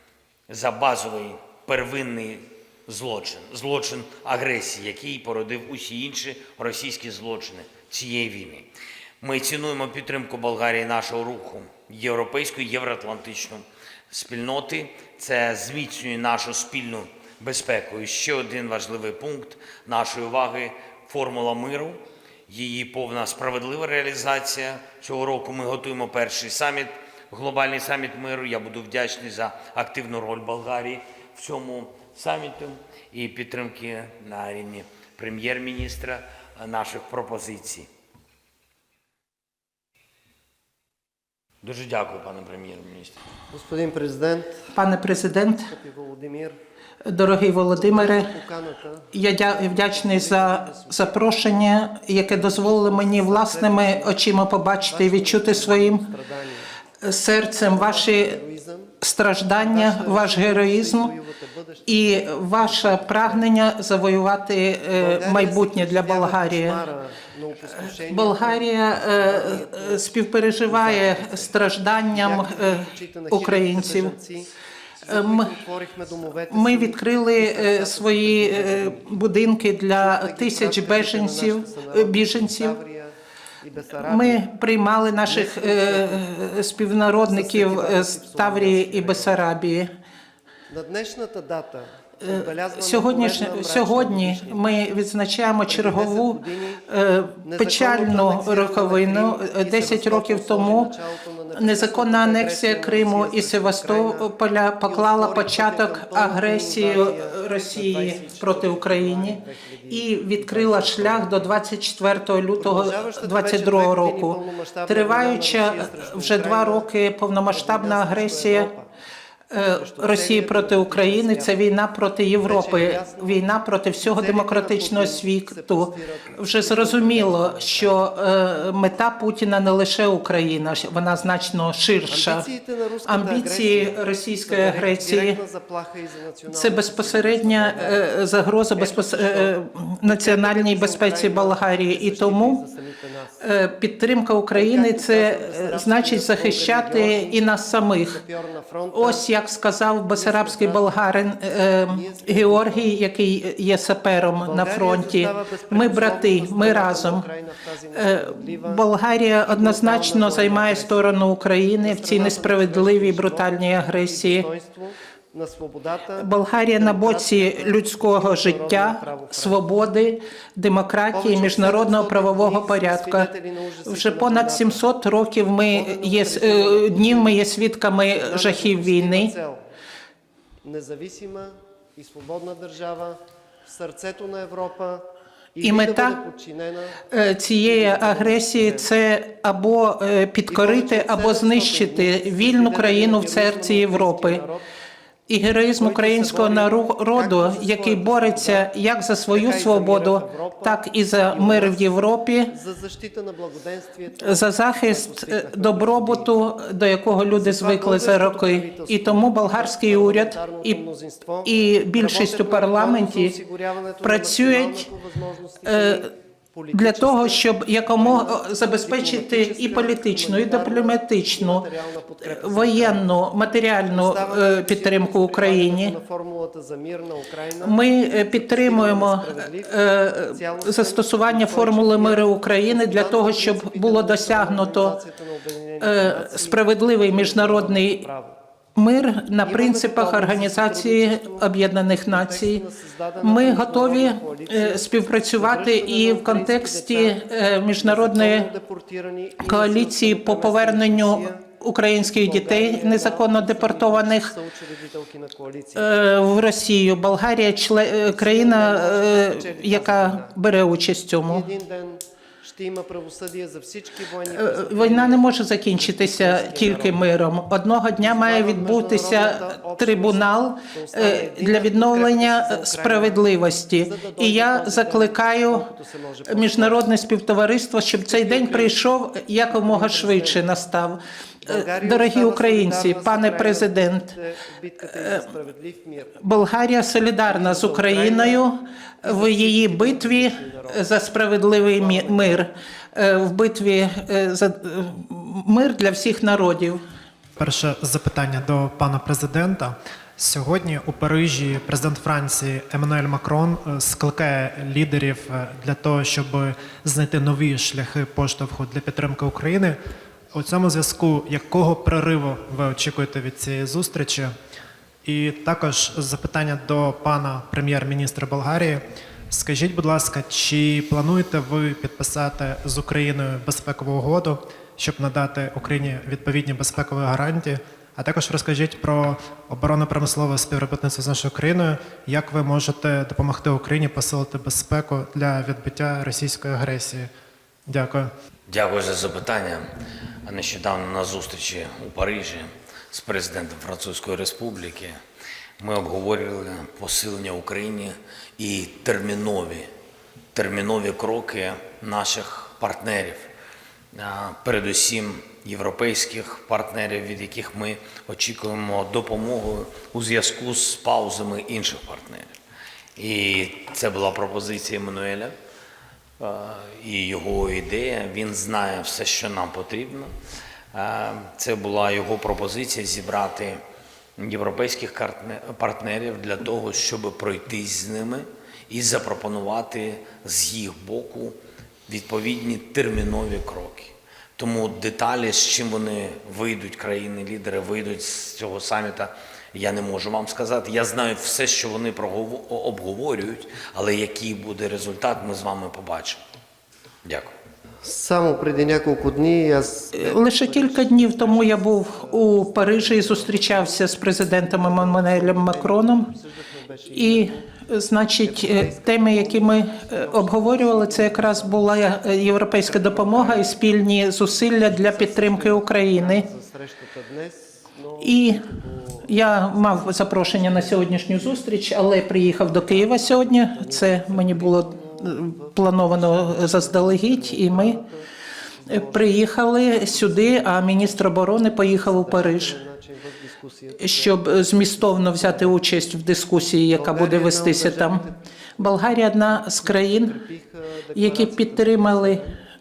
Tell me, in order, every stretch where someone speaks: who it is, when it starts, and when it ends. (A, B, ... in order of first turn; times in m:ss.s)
0:00.5-0:08.7 A
0:09.2-0:37.9 A
0:41.6-0:43.2 A
0:43.5-0:44.6 B
0:44.7-0:45.7 C
0:45.7-0:46.6 B
0:47.0-0:48.3 C
0:47.7-0:51.7 B
0:49.1-0:56.1 C
0:52.3-0:54.2 B
0:54.9-0:56.7 B
0:57.0-0:58.4 C
0:57.6-0:58.9 B
0:59.0-1:01.1 C
0:59.5-1:03.5 B
1:01.9-1:06.8 C
1:05.0-1:10.1 B
1:07.8-1:14.1 C
1:10.7-1:11.5 B
1:12.1-1:14.5 B
1:15.0-1:19.1 B
1:15.1-1:15.5 C
1:16.5-1:22.8 C
1:20.0-1:24.5 B
1:24.0-1:29.9 C
1:25.2-1:26.2 B
1:27.1-1:29.4 B
1:30.7-1:34.6 B
1:32.2-1:40.9 C
1:35.6-1:36.8 B
1:37.4-1:44.3 B
1:41.6-1:49.4 C
1:44.8-1:51.5 B
1:49.9-1:58.7 C
1:52.6-1:56.9 B
1:57.5-1:58.9 B
1:59.5-2:12.5 C
1:59.7-2:01.6 B
2:02.4-2:03.4 B
2:04.0-2:08.1 B
2:12.1-2:18.1 B
2:13.0-2:15.4 C
2:16.5-2:22.6 C
2:18.7-2:23.4 B
2:23.4-2:28.2 C
2:24.5-2:29.3 B
2:28.9-2:37.3 C
2:30.1-2:31.0 B
2:31.8-2:32.9 B
2:34.4-2:38.8 B
2:37.9-2:44.5 C
2:39.4-2:41.2 B
2:41.8-2:49.6 B
2:46.2-2:53.3 C
2:51.1-2:54.8 B
2:53.8-2:59.3 C
2:55.7-2:57.4 B
2:58.1-2:59.6 B
3:00.6-3:05.0 B
3:05.5-3:07.0 B
3:05.6-3:06.2 C
3:07.1-3:14.4 C
3:07.6-3:08.9 B
3:10.5-3:14.6 B
3:15.3-3:22.5 C
3:15.7-3:18.7 B
3:19.3-3:21.9 B
3:22.5-3:26.4 B
3:24.2-3:30.8 C
3:27.3-3:43.1 B
3:31.4-3:33.4 C
3:34.0-3:34.9 C
3:35.6-3:36.0 C
3:36.7-3:41.7 C
3:42.2-3:46.0 C
3:43.8-3:58.4 B
3:47.6-3:55.0 C
3:55.8-3:58.0 C
3:58.8-4:02.6 C
3:59.4-4:07.2 B
4:03.2-4:08.5 C
4:07.8-4:11.4 B
4:09.4-4:14.3 C
4:12.0-4:15.9 B
4:15.8-4:21.5 C
4:18.0-4:20.4 B
4:21.2-4:27.1 B
4:24.3-4:35.7 C
4:28.0-4:36.9 B
4:36.3-4:44.1 C
4:37.9-4:38.9 B
4:39.5-4:40.5 B
4:41.4-4:46.2 B
4:44.9-4:45.3 C
4:46.2-4:56.8 C
4:47.2-4:48.4 B
4:49.0-4:52.5 B
4:57.4-5:09.8 D
5:10.3-5:14.3 D
5:15.0-5:37.1 D
5:37.7-5:38.1 D
5:38.5-5:39.6 A
5:40.2-5:45.0 A
5:45.6-5:49.7 A
5:50.3-5:53.3 A
5:53.9-6:02.3 A
6:03.0-6:05.3 A
6:06.2-6:10.1 A
6:10.7-6:13.6 A
6:14.2-6:21.4 A
6:21.9-6:36.2 A
6:37.0-6:37.3 A
6:37.8-6:47.4 B
6:39.9-6:46.1 C
6:46.9-6:56.2 C
6:48.2-6:53.6 B
6:54.4-7:01.5 B
6:58.0-6:58.4 C
6:59.0-7:07.8 C
7:02.3-7:08.0 B
7:08.6-7:15.6 B
7:08.7-7:12.6 C
7:13.8-7:18.0 C
7:16.7-7:22.4 B
7:18.6-7:20.2 C
7:20.9-7:22.2 C